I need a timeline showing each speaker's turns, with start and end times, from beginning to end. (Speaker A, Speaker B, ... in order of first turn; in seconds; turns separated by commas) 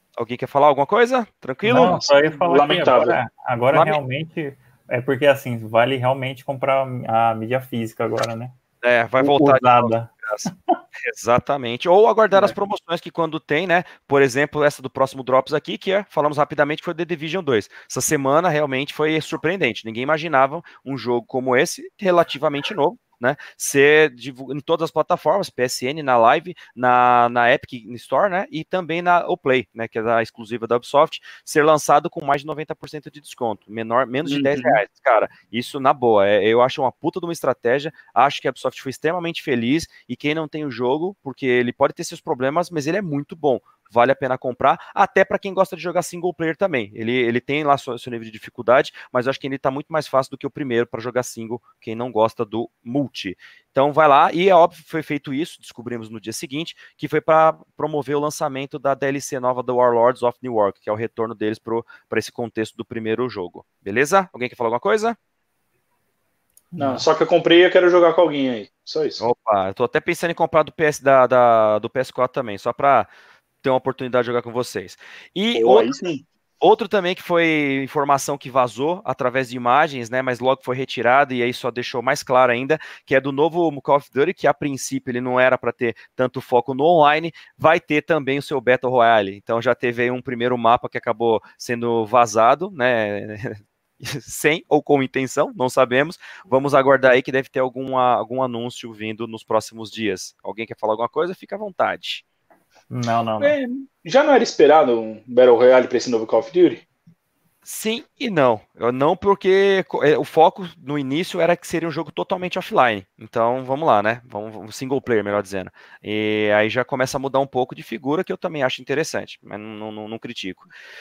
Speaker A: 0.2-2.1, Speaker B: 1.6-8.5, Speaker C: 1.6-3.2, Speaker A: 3.7-4.0, Speaker A: 8.8-65.2, Speaker B: 9.2-10.5, Speaker C: 34.2-34.8, Speaker B: 66.7-67.0, Speaker C: 66.8-69.2, Speaker A: 69.2-73.1, Speaker A: 73.6-75.9, Speaker C: 75.5-76.2, Speaker A: 76.6-102.2, Speaker B: 102.9-103.6, Speaker C: 103.4-106.8, Speaker A: 107.6-120.7